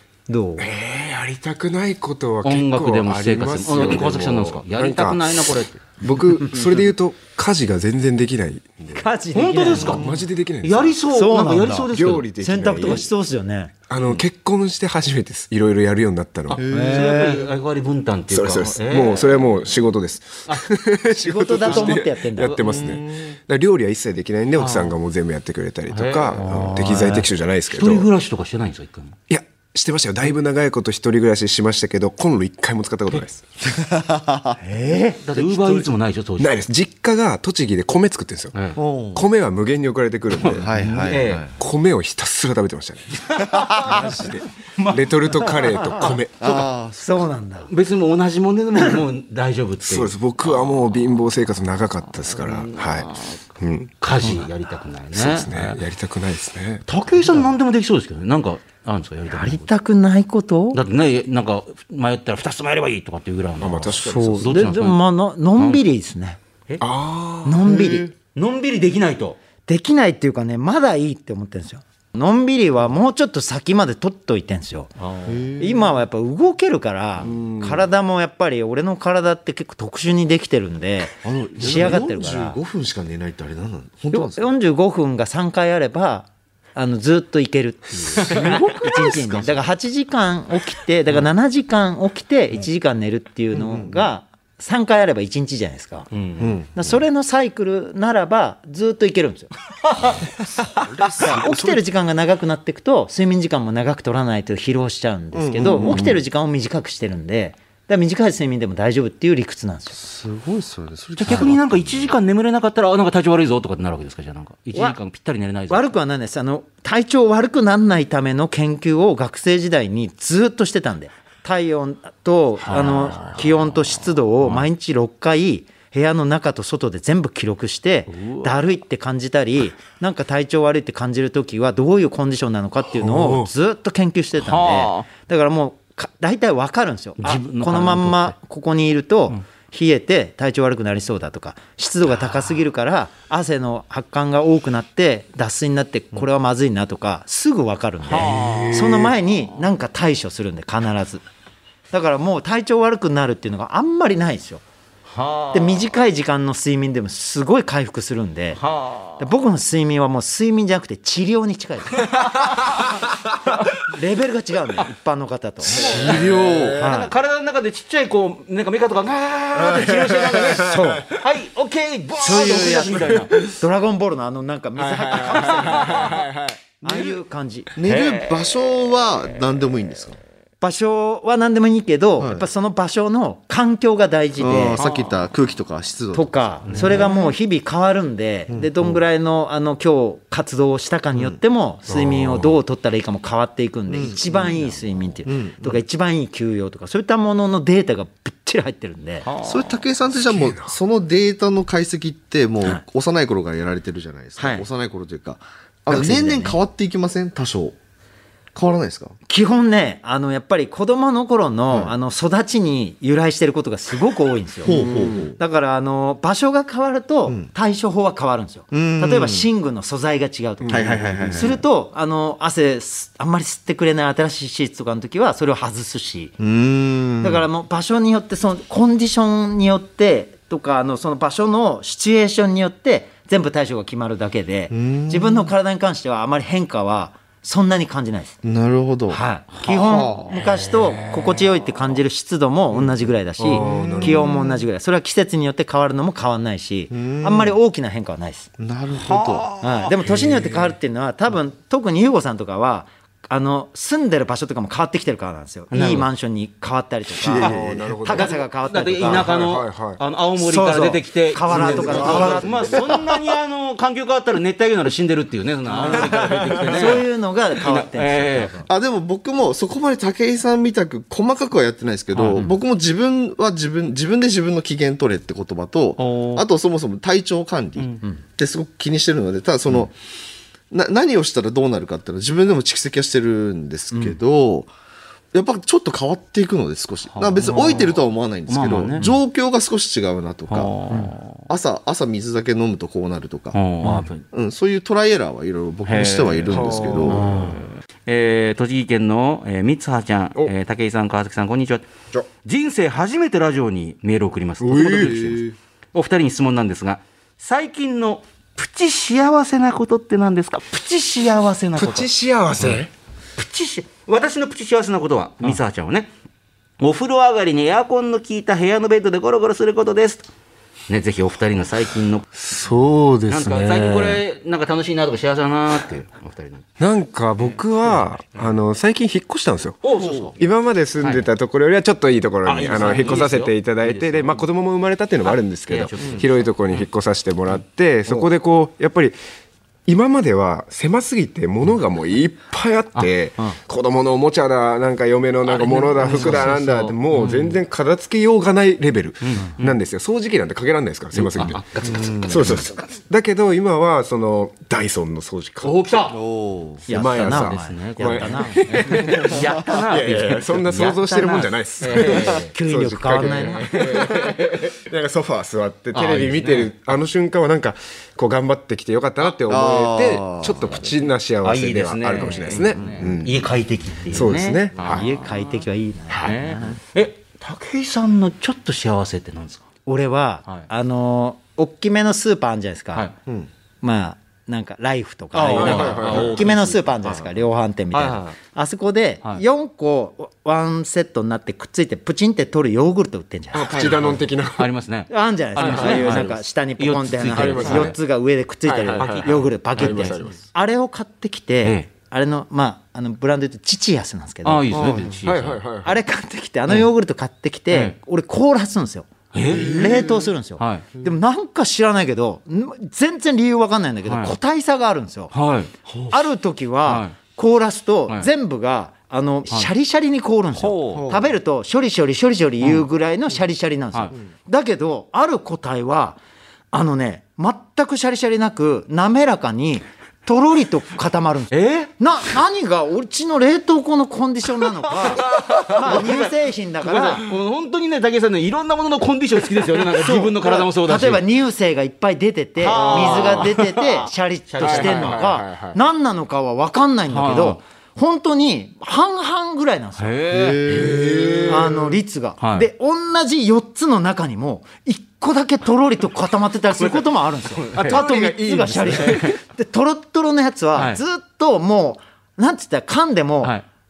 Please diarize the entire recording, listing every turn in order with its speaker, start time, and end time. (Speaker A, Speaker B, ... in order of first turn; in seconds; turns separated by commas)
Speaker A: 0.3-0.7, Speaker B: 0.6-9.1, Speaker C: 2.4-5.8, Speaker A: 8.9-10.0, Speaker C: 9.3-10.1, Speaker D: 9.8-10.2, Speaker B: 9.8-11.0, Speaker C: 10.6-12.3, Speaker A: 11.1-13.7, Speaker B: 11.9-13.1, Speaker B: 13.9-16.6, Speaker C: 16.5-19.4, Speaker D: 16.5-17.2, Speaker A: 16.7-17.5, Speaker B: 18.3-28.1, Speaker A: 21.2-22.6, Speaker C: 21.6-23.2, Speaker D: 22.7-23.0, Speaker C: 24.6-24.9, Speaker C: 25.9-29.1, Speaker B: 29.3-33.5, Speaker D: 33.6-34.6, Speaker A: 34.6-35.2, Speaker C: 35.2-36.6, Speaker B: 35.4-35.8, Speaker B: 36.4-38.6, Speaker D: 38.8-39.3, Speaker B: 39.1-40.7, Speaker C: 40.4-41.4, Speaker D: 40.5-41.5, Speaker B: 41.6-46.7, Speaker C: 43.3-46.1, Speaker D: 43.4-44.0, Speaker A: 45.8-46.1, Speaker D: 46.4-47.3, Speaker A: 47.0-47.7, Speaker C: 47.7-51.1, Speaker B: 49.9-54.5, Speaker C: 52.2-53.4, Speaker C: 54.0-55.8, Speaker B: 55.1-56.9, Speaker C: 56.9-59.7, Speaker A: 59.3-60.8, Speaker C: 60.7-65.0, Speaker B: 63.6-64.6, Speaker A: 64.0-66.4, Speaker B: 66.8-67.7, Speaker A: 67.5-68.1, Speaker D: 67.6-68.1, Speaker C: 68.3-69.4, Speaker A: 69.7-74.9, Speaker C: 75.0-75.4, Speaker D: 75.2-76.0, Speaker A: 75.6-82.6, Speaker B: 77.2-77.9, Speaker D: 81.2-84.5, Speaker A: 84.1-96.1, Speaker D: 88.2-89.7, Speaker C: 88.3-88.6, Speaker D: 93.5-94.1, Speaker C: 96.1-96.5, Speaker D: 96.4-96.9, Speaker A: 96.8-99.5, Speaker D: 100.6-101.8, Speaker A: 101.2-110.0, Speaker D: 105.3-106.2, Speaker B: 105.9-106.1, Speaker D: 110.0-112.1, Speaker C: 111.2-115.9, Speaker A: 115.7-151.2, Speaker C: 122.7-123.4, Speaker C: 128.1-128.5, Speaker B: 133.0-133.5, Speaker C: 134.4-135.1, Speaker C: 137.2-138.3, Speaker C: 148.1-149.0, Speaker B: 148.2-149.1, Speaker A: 151.9-154.6, Speaker C: 155.1-155.9, Speaker A: 155.5-158.6, Speaker C: 158.6-159.3, Speaker A: 159.2-162.1, Speaker C: 162.3-162.6, Speaker A: 163.8-165.8, Speaker C: 165.6-173.3, Speaker D: 165.7-166.8, Speaker B: 165.7-166.9, Speaker A: 166.8-167.1, Speaker B: 169.6-171.2, Speaker A: 170.6-171.1, Speaker A: 172.2-176.2, Speaker B: 172.2-173.4, Speaker B: 174.8-176.6, Speaker C: 175.6-176.1, Speaker A: 176.8-177.7, Speaker D: 177.8-180.2, Speaker C: 177.8-178.5, Speaker A: 180.6-184.8, Speaker D: 182.2-182.5, Speaker D: 184.4-187.3, Speaker C: 184.8-185.1, Speaker A: 186.1-199.3, Speaker C: 186.7-187.1, Speaker D: 188.5-189.0, Speaker B: 191.9-192.6, Speaker D: 193.9-195.8, Speaker C: 199.2-199.8, Speaker D: 199.4-207.8, Speaker B: 200.1-200.8, Speaker A: 204.4-204.7, Speaker A: 205.9-206.6, Speaker D: 208.5-209.2, Speaker A: 209.3-214.8, Speaker D: 211.7-211.9, Speaker D: 214.6-215.4, Speaker B: 214.7-215.2, Speaker A: 215.4-226.3, Speaker D: 218.7-219.5, Speaker B: 220.6-221.6, Speaker D: 220.7-221.6, Speaker D: 226.4-227.4, Speaker A: 227.2-238.4, Speaker D: 234.7-235.5, Speaker D: 238.4-240.4, Speaker A: 239.1-248.5, Speaker B: 240.3-241.4, Speaker D: 242.7-243.0, Speaker B: 243.4-244.3, Speaker D: 243.6-244.6, Speaker D: 246.9-247.6, Speaker D: 248.6-249.5, Speaker C: 248.9-249.7, Speaker A: 249.6-259.3, Speaker B: 250.0-250.8, Speaker C: 255.7-256.1, Speaker B: 257.2-258.4, Speaker D: 257.3-257.6, Speaker C: 258.1-268.5, Speaker B: 259.0-260.0, Speaker A: 260.4-263.0, Speaker B: 261.5-263.0, Speaker D: 261.9-262.6, Speaker A: 265.8-266.1, Speaker B: 265.8-267.0, Speaker A: 266.6-268.7, Speaker D: 268.7-279.9, Speaker C: 272.1-272.5, Speaker C: 276.0-276.5, Speaker D: 280.7-284.7, Speaker A: 283.9-284.2, Speaker D: 285.3-290.7, Speaker C: 287.1-289.1, Speaker A: 287.5-287.8, Speaker C: 290.5-291.4, Speaker D: 291.5-293.6, Speaker C: 293.5-294.2, Speaker A: 293.8-294.1, Speaker D: 294.3-297.3, Speaker C: 295.9-301.9, Speaker B: 296.5-297.6, Speaker A: 297.3-297.6, Speaker C: 302.4-312.8, Speaker B: 304.6-305.6, Speaker D: 304.9-305.3, Speaker B: 311.8-312.9, Speaker C: 313.4-316.1, Speaker C: 316.8-320.3, Speaker C: 320.9-322.3, Speaker B: 322.4-324.2, Speaker C: 323.3-326.6, Speaker B: 326.8-329.8, Speaker C: 329.8-330.4, Speaker D: 329.9-330.4, Speaker B: 330.3-339.2, Speaker C: 331.0-331.3, Speaker C: 332.4-334.4, Speaker C: 335.3-336.8, Speaker B: 339.9-351.6, Speaker C: 345.5-347.6, Speaker C: 349.2-349.8, Speaker C: 351.1-352.8, Speaker D: 351.9-352.6, Speaker B: 352.2-355.8, Speaker C: 355.6-356.2, Speaker D: 356.1-356.9, Speaker B: 356.9-373.4, Speaker A: 356.9-358.6, Speaker C: 357.1-362.5, Speaker D: 359.0-359.8, Speaker A: 361.1-361.4, Speaker A: 362.5-363.7, Speaker C: 363.2-364.7, Speaker C: 365.9-366.7, Speaker D: 369.4-370.9, Speaker C: 371.4-375.6, Speaker D: 372.5-373.1, Speaker B: 374.1-375.1, Speaker A: 374.9-376.8, Speaker B: 376.1-376.4, Speaker C: 376.2-379.6, Speaker A: 379.9-383.1, Speaker A: 383.8-393.9, Speaker C: 385.3-386.9, Speaker B: 385.5-386.5, Speaker D: 387.0-387.3, Speaker C: 387.9-388.4, Speaker B: 393.5-394.7, Speaker D: 393.7-394.2, Speaker C: 394.6-398.0, Speaker A: 395.1-404.9, Speaker B: 395.6-396.3, Speaker B: 397.2-398.0, Speaker B: 398.6-400.4, Speaker C: 398.9-400.3, Speaker C: 404.4-405.6, Speaker D: 404.7-405.1, Speaker B: 405.0-406.0, Speaker A: 405.8-415.3, Speaker C: 409.3-409.9, Speaker B: 409.5-410.2, Speaker D: 409.6-410.1, Speaker C: 410.6-410.9, Speaker C: 414.1-414.4, Speaker C: 415.3-415.7, Speaker A: 416.1-426.2, Speaker C: 416.9-417.1, Speaker C: 420.6-421.1, Speaker D: 420.9-421.3, Speaker C: 422.6-422.9, Speaker A: 426.7-437.2, Speaker C: 431.5-431.9, Speaker C: 434.9-441.2, Speaker A: 439.9-450.1, Speaker C: 442.6-445.2, Speaker B: 442.7-443.5, Speaker B: 444.6-445.8, Speaker C: 447.1-447.6, Speaker C: 450.0-450.9, Speaker D: 450.3-451.7, Speaker B: 450.7-452.0, Speaker A: 451.5-463.6, Speaker C: 452.4-452.7, Speaker C: 456.8-458.0, Speaker B: 457.8-459.3, Speaker C: 458.9-459.4, Speaker C: 460.8-461.0